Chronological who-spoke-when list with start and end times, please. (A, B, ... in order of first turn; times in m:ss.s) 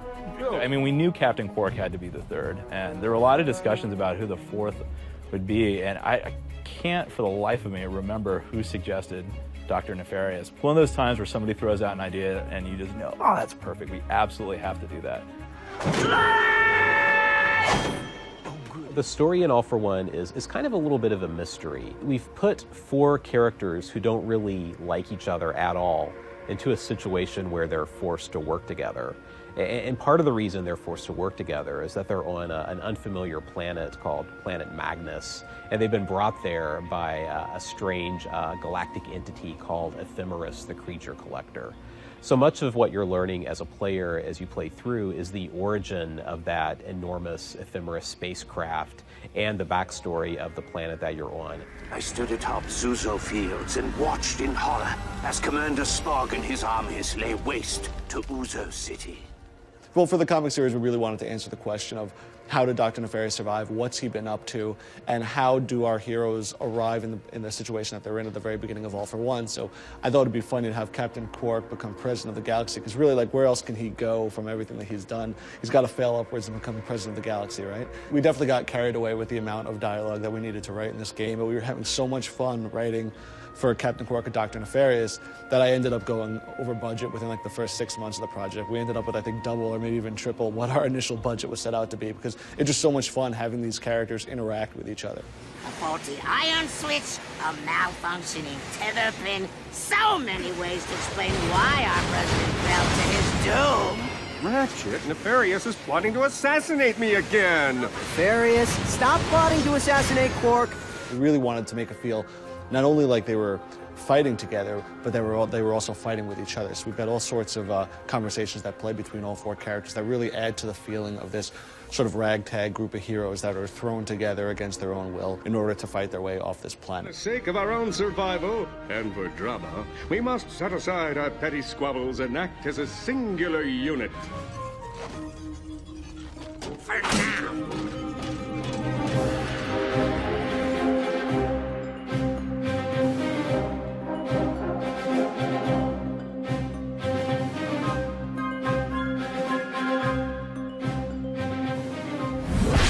0:00.5-0:15.2 A
0:18.7-0:51.7 B
0:51.9-0:59.2 C
0:59.9-1:35.2 D
1:35.6-1:44.1 E
1:44.4-1:47.9 F
1:48.2-1:50.7 G
1:51.1-2:07.1 D
2:07.0-2:14.3 F